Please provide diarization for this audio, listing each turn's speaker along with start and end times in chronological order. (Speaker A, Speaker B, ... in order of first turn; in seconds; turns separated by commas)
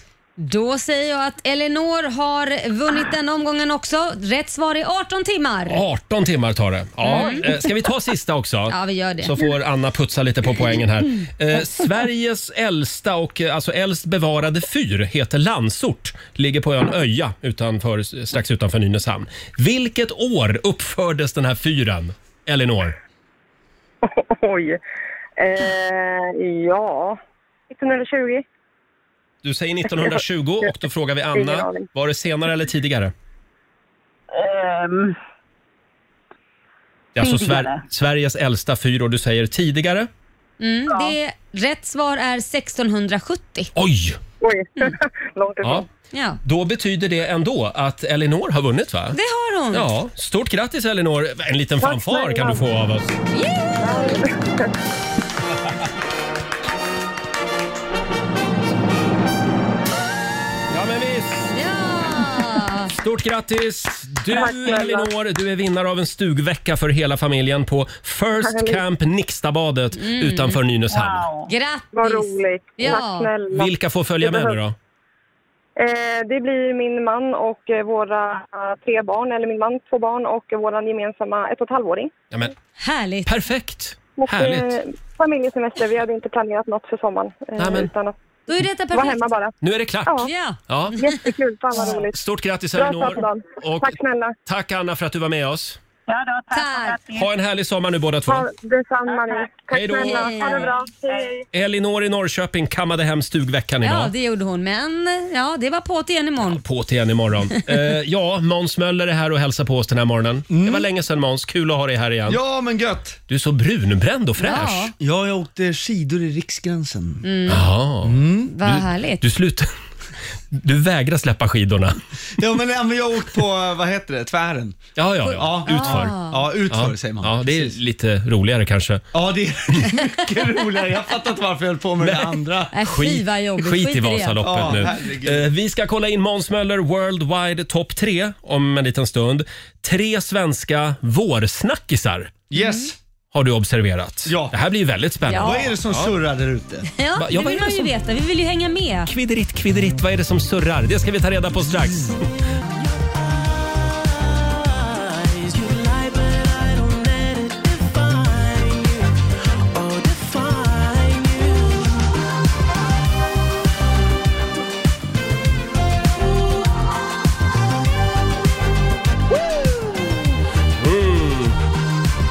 Speaker A: 0.4-5.8, Speaker B: 5.7-23.0, Speaker A: 7.0-7.6, Speaker A: 8.7-9.3, Speaker C: 24.1-24.8, Speaker C: 25.4-27.2, Speaker C: 27.7-28.4, Speaker B: 29.4-33.1, Speaker C: 31.3-31.9, Speaker D: 34.4-35.1, Speaker B: 37.1-40.1, Speaker D: 37.2-37.8, Speaker A: 40.6-43.7, Speaker B: 43.7-44.2, Speaker C: 44.4-45.9, Speaker A: 46.1-46.4, Speaker B: 46.4-49.2, Speaker A: 49.1-49.9, Speaker B: 49.7-53.1, Speaker C: 51.8-52.6, Speaker A: 53.3-54.2, Speaker C: 53.8-54.7, Speaker B: 60.7-61.5, Speaker A: 61.5-62.9, Speaker B: 62.9-71.3, Speaker C: 64.3-65.1, Speaker C: 68.4-68.8, Speaker A: 70.0-70.6, Speaker D: 70.9-71.5, Speaker A: 71.5-73.3, Speaker C: 71.9-74.5, Speaker B: 73.5-74.8, Speaker C: 75.8-82.1, Speaker A: 82.8-83.3, Speaker B: 83.2-84.7, Speaker C: 84.2-88.1, Speaker B: 87.6-87.9, Speaker A: 88.5-89.2, Speaker C: 88.9-89.5, Speaker B: 89.6-91.0, Speaker A: 90.2-91.2, Speaker C: 90.9-92.2, Speaker B: 92.1-95.8, Speaker C: 92.7-94.3, Speaker D: 96.1-97.3, Speaker A: 96.5-97.0, Speaker B: 97.1-98.5, Speaker C: 98.3-101.4, Speaker B: 99.7-100.6, Speaker A: 99.9-100.7, Speaker B: 101.5-104.1, Speaker A: 103.8-106.6, Speaker B: 106.4-112.4, Speaker E: 110.5-110.9, Speaker E: 112.2-113.2, Speaker B: 113.3-114.9, Speaker A: 114.4-114.9, Speaker E: 115.0-117.3, Speaker A: 117.2-117.6, Speaker B: 117.5-119.7, Speaker E: 118.0-118.5, Speaker A: 118.4-119.2, Speaker B: 120.5-122.0, Speaker E: 122.4-127.8, Speaker B: 125.0-129.1, Speaker A: 125.2-126.4, Speaker E: 129.1-132.7, Speaker B: 132.0-142.4, Speaker A: 132.7-134.7, Speaker E: 134.4-135.4, Speaker E: 142.5-142.9, Speaker A: 142.5-142.9, Speaker B: 143.3-146.1, Speaker E: 144.2-144.5, Speaker A: 145.3-145.7, Speaker E: 145.3-146.9, Speaker A: 147.0-149.1, Speaker B: 147.2-147.9, Speaker B: 149.1-152.2, Speaker B: 157.8-158.2, Speaker B: 160.0-161.2, Speaker B: 170.8-171.6